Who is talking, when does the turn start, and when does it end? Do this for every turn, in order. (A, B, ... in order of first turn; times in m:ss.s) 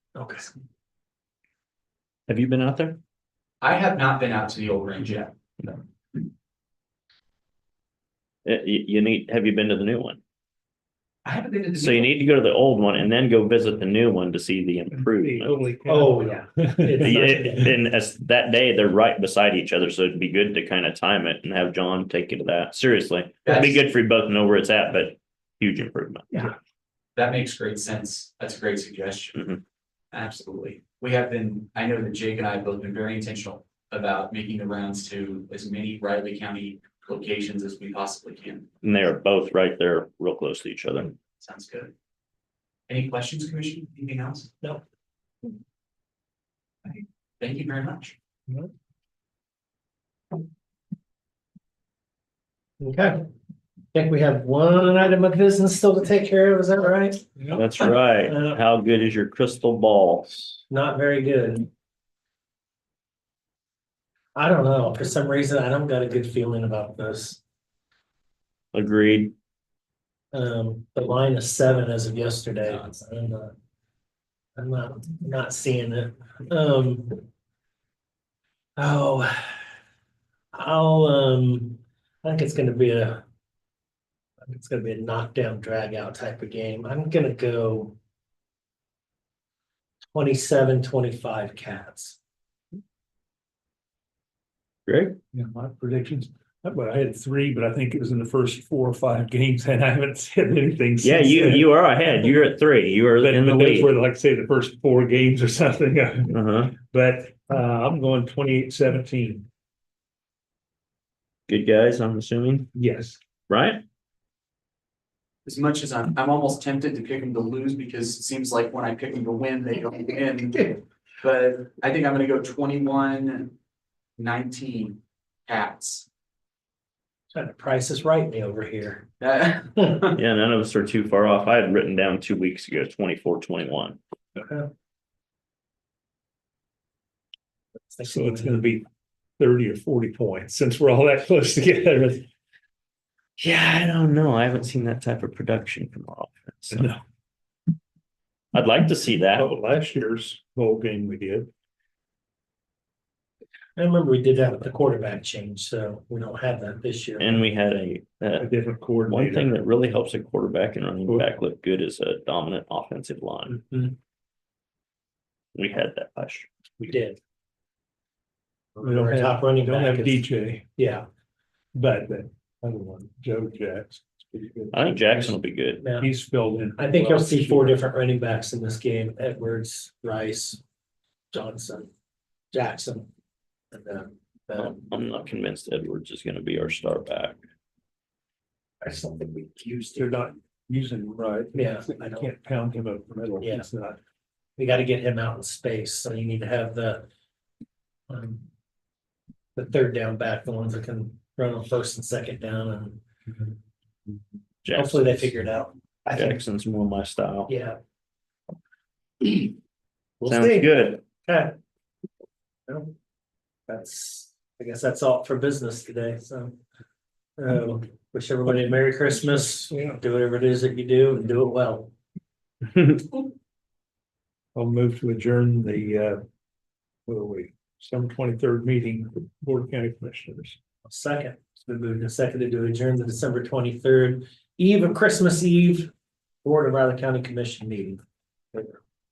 0:00.2-0:00.4 A
0:02.3-0:03.0 B
0:03.6-0:05.3 C
0:08.4-0:10.2 B
0:11.2-0:12.1 C
0:11.8-0:15.6 B
0:14.9-0:17.4 D
0:15.9-0:17.7 A
0:17.0-0:26.4 B
0:23.4-0:23.8 C
0:27.1-0:29.5 C
0:29.4-0:29.6 B
0:30.1-0:38.7 C
0:38.8-0:41.2 B
0:41.4-0:41.9 C
0:42.9-0:44.5 C
0:47.4-0:48.1 C
0:52.8-0:53.2 A
0:53.9-0:58.6 A
0:57.4-0:57.6 D
0:57.5-1:00.5 B
1:00.7-1:01.7 A
1:04.4-1:07.4 A
1:08.7-1:09.3 B
1:10.3-1:13.5 A
1:12.6-1:13.0 C
1:14.6-1:17.3 A
1:18.8-1:19.6 A
1:20.5-1:23.2 A
1:24.4-1:28.0 A
1:30.1-1:32.2 A
1:34.9-1:35.2 B
1:35.3-1:42.2 D
1:41.0-1:44.0 B
1:43.2-1:49.5 D
1:46.3-1:46.7 B
1:51.5-1:52.7 B
1:52.7-1:53.2 D
1:53.5-1:53.8 B
1:55.4-2:03.6 C
2:04.2-2:06.1 C
2:07.3-2:09.1 A
2:09.2-2:10.2 C
2:09.8-2:10.0 A
2:10.1-2:14.0 B
2:14.4-2:14.7 A
2:17.9-2:18.6 A
2:18.0-2:18.8 D
2:19.4-2:22.3 D
2:23.4-2:26.9 B
2:26.7-2:27.0 D
2:28.5-2:29.5 B
2:29.3-2:31.5 D
2:33.8-2:37.4 A
2:37.2-2:38.5 B
2:38.4-2:39.5 D
2:39.1-2:43.6 B
2:43.5-2:44.0 A
2:45.5-2:46.5 B
2:46.9-2:47.2 A
2:48.8-2:51.0 A
2:48.8-2:50.7 D
2:51.7-2:55.3 D
2:54.7-2:55.9 B
2:55.8-2:56.1 A
2:55.9-2:57.8 D
2:56.8-3:00.6 A
3:01.3-3:01.9 A
3:02.5-3:03.1 A
3:03.7-3:04.8 A
3:04.6-3:07.4 B
3:08.8-3:10.2 A
3:09.9-3:14.0 D
3:11.5-3:12.3 A
3:13.4-3:13.7 A
3:14.6-3:17.1 A
3:18.1-3:18.4 A
3:19.6-3:23.0 A
3:24.6-3:25.3 B
3:24.7-3:26.4 A
3:26.0-3:27.5 B
3:27.5-3:27.8 A
3:29.2-3:29.5 A
3:30.2-3:30.7 A
3:30.3-3:31.0 B
3:31.2-3:31.6 A
3:32.7-3:32.9 A
3:33.7-3:36.6 A
3:37.4-3:41.9 A
3:39.2-3:40.0 D
3:44.5-3:46.2 D
3:47.1-3:50.6 D
3:50.8-3:55.9 A
3:56.4-3:58.0 A
3:58.5-3:58.8 A